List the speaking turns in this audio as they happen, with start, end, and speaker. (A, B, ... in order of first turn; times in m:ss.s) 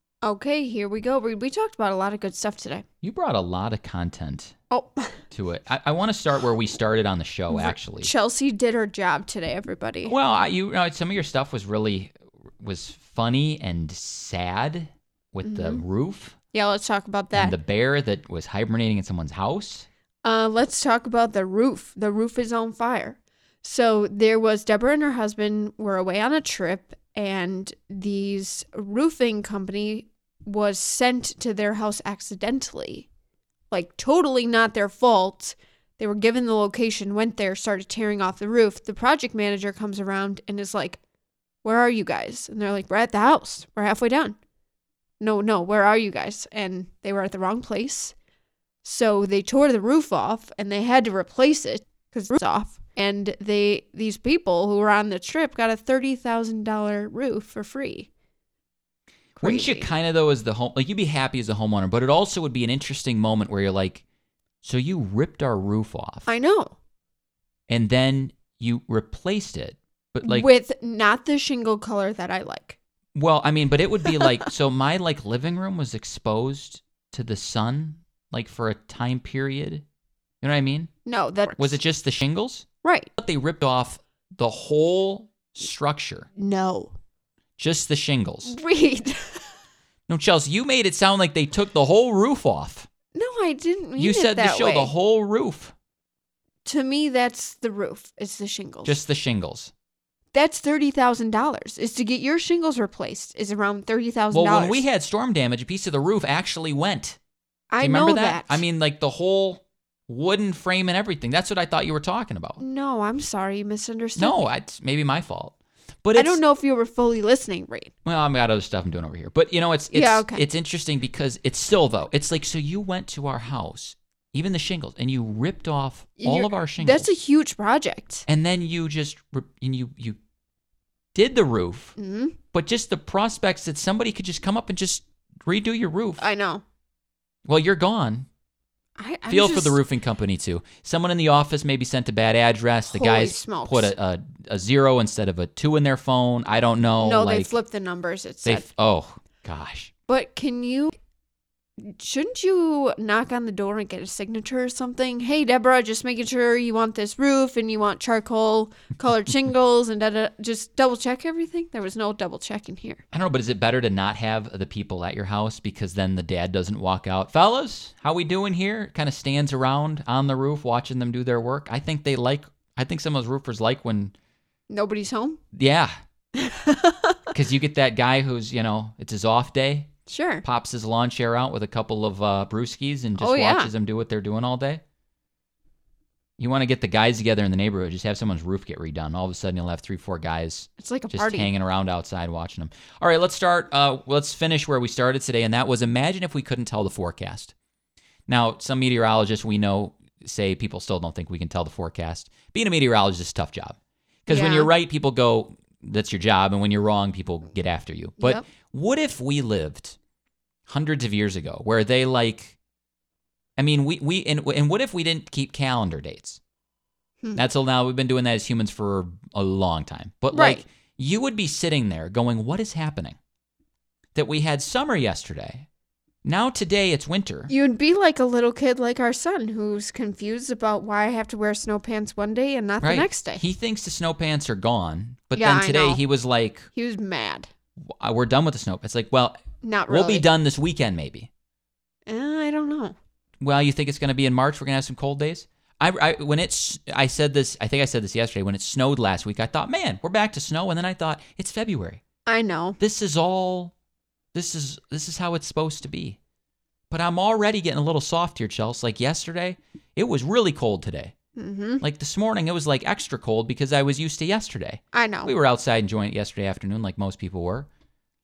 0:00.2-0:02.8 A
0:03.0-0:04.5 B
0:04.7-0:05.2 A
0:05.3-0:08.1 B
0:07.5-0:10.1 A
0:10.0-0:16.3 B
0:15.4-0:15.8 A
0:16.5-0:17.6 A
0:17.3-0:19.9 B
0:20.2-0:33.1 A
0:33.7-0:41.0 A
0:41.6-0:44.4 A
0:45.2-0:48.1 A
0:48.8-0:58.1 A
0:59.4-0:59.9 A
0:59.4-1:04.0 B
1:04.6-1:06.3 B
1:06.3-1:06.8 A
1:07.7-1:10.5 B
1:10.2-1:12.8 A
1:13.1-1:19.8 B
1:14.0-1:14.3 A
1:20.4-1:20.9 B
1:21.0-1:21.8 A
1:21.6-1:22.6 B
1:22.8-1:23.1 A
1:23.2-1:26.3 B
1:26.4-1:26.9 A
1:27.6-1:28.5 B
1:28.4-1:29.5 A
1:30.1-1:32.9 B
1:33.1-1:34.9 A
1:34.0-1:35.7 B
1:36.6-1:39.0 A
1:38.8-1:39.7 B
1:40.3-1:44.8 A
1:44.3-1:47.2 B
1:47.7-1:48.6 A
1:47.8-1:52.6 B
1:52.6-1:54.4 A
1:54.2-1:56.4 B
1:56.2-1:57.9 A
1:58.0-2:07.1 B
1:59.9-2:00.4 A
2:06.2-2:08.2 A
2:08.3-2:10.2 B
2:11.1-2:12.0 B
2:12.0-2:12.4 A
2:12.5-2:16.2 B
2:16.2-2:16.6 A
2:17.4-2:18.3 B
2:19.0-2:19.8 A
2:19.3-2:27.6 B
2:22.9-2:23.9 A
2:27.0-2:28.7 A
2:28.4-2:29.9 B
2:30.1-2:30.9 A
2:31.8-2:43.0 A
2:43.1-2:54.1 B
2:54.7-2:55.4 A
2:55.5-2:55.9 B
2:56.3-2:57.3 A
2:57.3-2:59.9 B
3:00.1-3:00.4 A
3:00.4-3:04.8 B
3:03.2-3:03.7 A
3:06.4-3:17.5 B
3:10.8-3:11.5 A
3:18.3-3:30.0 B
3:24.3-3:24.7 A
3:28.2-3:28.4 A
3:30.7-3:32.6 B
3:33.6-3:36.4 B
3:37.3-3:43.2 B
3:40.3-3:40.6 A
3:44.1-3:45.7 B
3:46.2-3:47.5 B
3:47.5-3:53.4 A
3:52.8-3:56.7 B
3:55.3-3:56.0 A
3:56.7-3:57.5 A
3:57.9-4:01.3 B
3:59.6-4:00.2 A
4:02.1-4:02.9 A
4:03.4-4:12.0 B
4:12.2-4:12.8 A
4:12.8-4:13.7 B
4:14.3-4:16.2 B
4:16.9-4:21.1 B
4:21.4-4:21.8 A
4:21.8-4:27.7 B
4:24.9-4:25.3 A